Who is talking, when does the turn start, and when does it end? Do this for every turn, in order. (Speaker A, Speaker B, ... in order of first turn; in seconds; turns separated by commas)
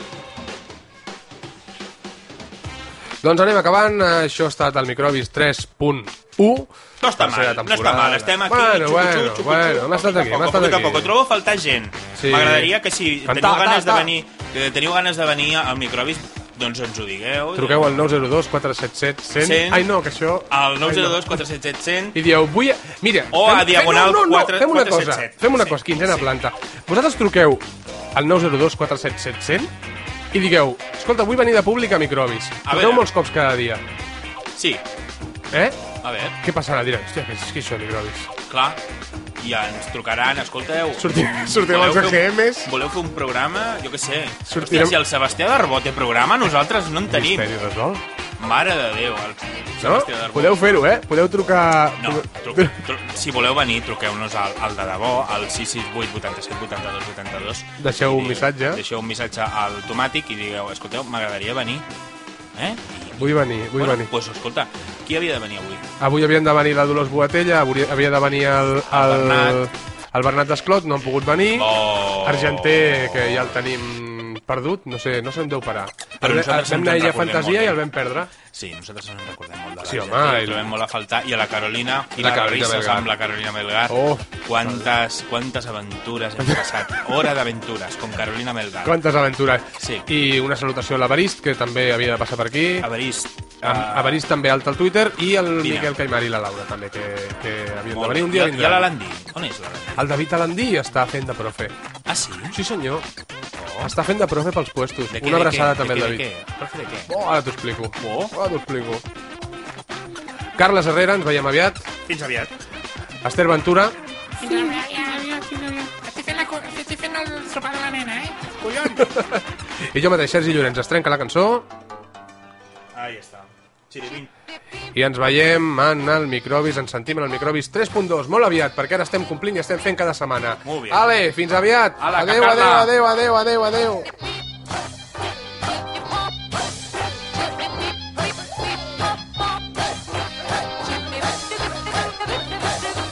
Speaker A: 3.2-11.1, Speaker B: 7.0-18.1, Speaker A: 12.2-12.7, Speaker A: 13.2-14.1, Speaker A: 17.5-21.4, Speaker B: 19.4-19.9, Speaker B: 20.5-22.2, Speaker A: 22.1-29.7, Speaker B: 23.3-26.3, Speaker A: 30.3-33.8, Speaker B: 32.6-33.1, Speaker B: 34.5-34.8, Speaker A: 35.5-35.8, Speaker B: 36.0-36.4, Speaker A: 36.4-38.3, Speaker B: 38.5-38.8, Speaker B: 39.4-47.5, Speaker A: 41.0-42.7, Speaker A: 44.5-45.0, Speaker A: 47.1-48.0, Speaker B: 48.4-50.6, Speaker A: 49.8-52.8, Speaker B: 52.0-61.8, Speaker A: 57.8-58.8, Speaker B: 62.5-65.8, Speaker A: 63.1-64.1, Speaker A: 66.0-78.3, Speaker B: 68.9-69.6, Speaker B: 71.5-73.5, Speaker B: 76.2-77.8, Speaker B: 78.4-89.0, Speaker A: 79.8-80.7, Speaker A: 82.2-83.1, Speaker A: 83.9-84.9, Speaker A: 88.8-92.9, Speaker B: 89.8-90.1, Speaker B: 92.8-94.2, Speaker A: 93.6-98.9, Speaker B: 95.6-95.9, Speaker B: 97.9-100.1, Speaker A: 100.0-101.8, Speaker B: 102.1-102.6, Speaker A: 102.5-103.1, Speaker B: 103.6-103.9, Speaker A: 103.8-106.2, Speaker B: 105.1-107.1, Speaker A: 107.1-109.0, Speaker B: 108.0-108.3, Speaker A: 110.5-111.8, Speaker B: 112.1-112.5, Speaker A: 113.2-113.9, Speaker B: 114.4-119.2, Speaker A: 119.0-121.7, Speaker B: 122.9-124.3, Speaker A: 124.9-134.1, Speaker B: 130.6-131.0, Speaker B: 132.0-132.9